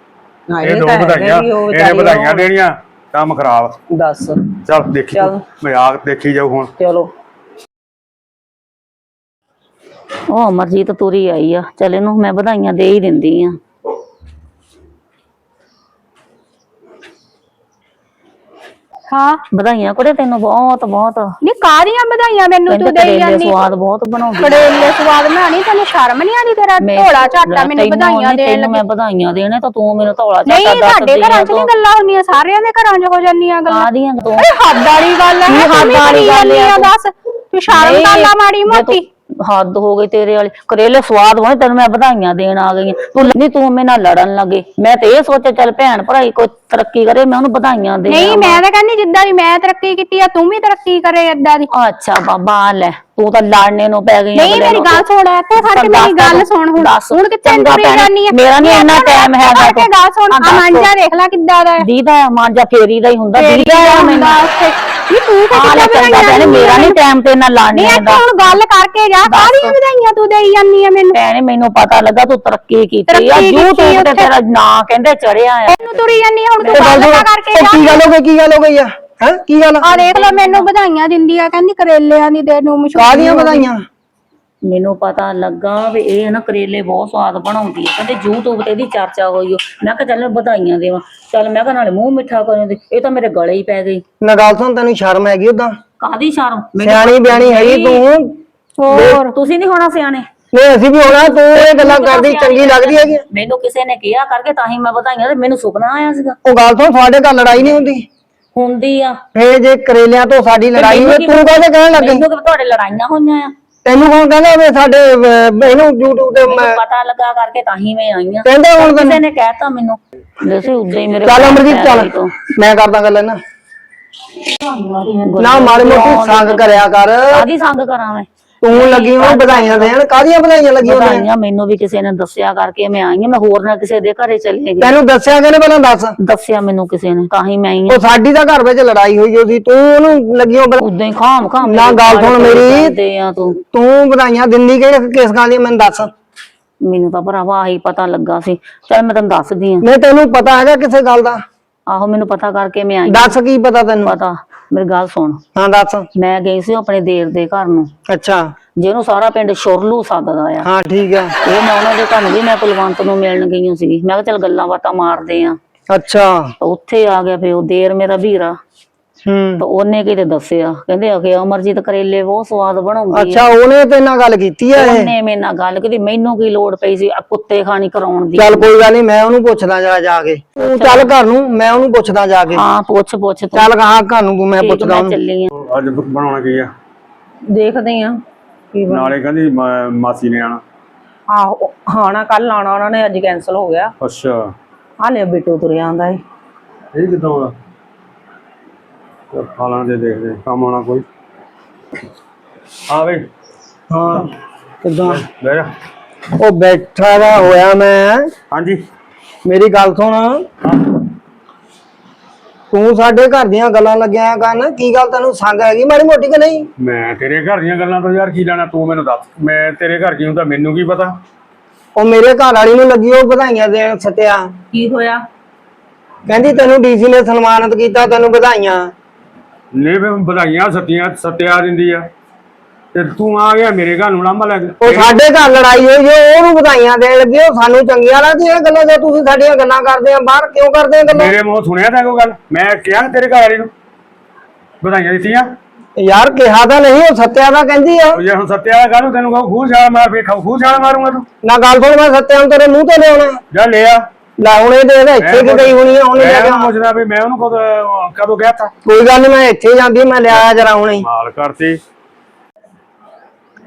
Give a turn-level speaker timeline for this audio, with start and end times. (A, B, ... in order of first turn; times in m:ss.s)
0:00.5-0:02.4 A
0:00.6-0:03.8 B
0:03.9-0:04.5 A
0:04.7-0:06.7 B
0:05.1-0:05.4 A
0:06.8-0:07.1 A
0:10.3-0:13.6 C
0:19.1-0:19.4 D
0:19.5-0:21.3 C
0:21.4-0:23.7 D
0:22.7-0:24.9 C
0:24.4-0:28.8 D
0:26.8-0:31.7 C
0:30.5-0:39.0 D
0:33.7-0:34.5 C
0:35.5-0:36.9 C
0:37.7-0:48.6 C
0:48.1-0:51.7 D
0:51.7-0:55.0 C
0:54.4-1:01.9 D
0:55.6-1:00.9 C
1:01.8-1:04.4 C
1:03.4-1:07.0 D
1:05.5-1:08.6 C
1:07.7-1:11.2 D
1:09.3-1:09.8 C
1:11.1-1:17.0 C
1:13.1-1:14.3 D
1:15.7-1:18.1 D
1:16.7-1:19.9 E
1:19.8-1:23.7 D
1:20.0-1:20.7 C
1:22.9-1:23.8 E
1:24.7-1:34.0 C
1:34.2-1:35.7 E
1:36.0-1:38.0 C
1:36.8-1:38.4 E
1:38.8-1:39.3 D
1:38.9-1:40.2 C
1:40.5-1:43.2 E
1:41.5-1:46.4 C
1:46.4-1:48.1 E
1:48.5-1:49.2 C
1:49.4-1:52.3 E
1:50.7-1:53.5 C
1:53.8-1:56.8 E
1:56.4-2:02.3 C
1:58.4-1:59.2 E
2:01.2-2:03.4 E
2:04.8-2:09.9 C
2:05.4-2:07.5 E
2:08.6-2:11.3 E
2:10.8-2:15.0 C
2:14.8-2:16.2 E
2:16.2-2:18.0 C
2:17.9-2:20.8 E
2:20.8-2:23.6 C
2:21.6-2:23.0 E
2:23.7-2:26.1 E
2:26.8-2:29.8 C
2:29.8-2:31.4 E
2:31.9-2:33.4 C
2:33.1-2:34.1 E
2:34.0-2:35.4 C
2:35.6-2:36.1 E
2:36.2-2:37.9 C
2:38.1-2:38.4 E
2:38.8-2:40.7 C
2:40.6-2:41.3 E
2:41.4-2:45.6 C
2:45.9-2:46.5 E
2:46.6-2:48.6 C
2:49.3-2:49.6 E
2:49.6-2:53.4 C
2:53.1-2:55.1 E
2:54.8-2:58.7 C
2:58.4-3:02.6 E
3:00.6-3:01.1 C
3:02.5-3:03.7 C
3:03.5-3:05.2 E
3:04.6-3:05.5 C
3:05.5-3:06.7 B
3:07.5-3:08.2 A
3:08.7-3:09.1 A
3:08.9-3:10.6 B
3:11.3-3:13.9 A
3:14.0-3:14.5 B
3:15.0-3:16.2 A
3:16.9-3:17.6 B
3:19.3-3:21.0 B
3:22.9-3:23.3 B
3:23.9-3:24.3 E
3:24.8-3:25.2 E
3:25.1-3:25.7 B
3:26.4-3:28.3 E
3:28.5-3:28.8 B
3:29.4-3:30.5 E
3:32.7-3:36.7 E
3:36.8-3:41.2 B
3:42.0-3:44.5 E
3:44.7-3:45.2 A
3:46.3-3:48.9 E
3:49.7-3:52.1 B
3:52.9-3:55.2 B
3:54.8-4:01.4 E
4:01.1-4:03.7 B
4:04.8-4:05.6 B
4:06.0-4:08.2 E
4:08.2-4:11.3 B
4:11.4-4:13.4 E
4:13.5-4:14.0 B
4:14.4-4:16.7 E
4:15.2-4:18.7 B
4:18.8-4:21.1 E
4:20.3-4:21.8 B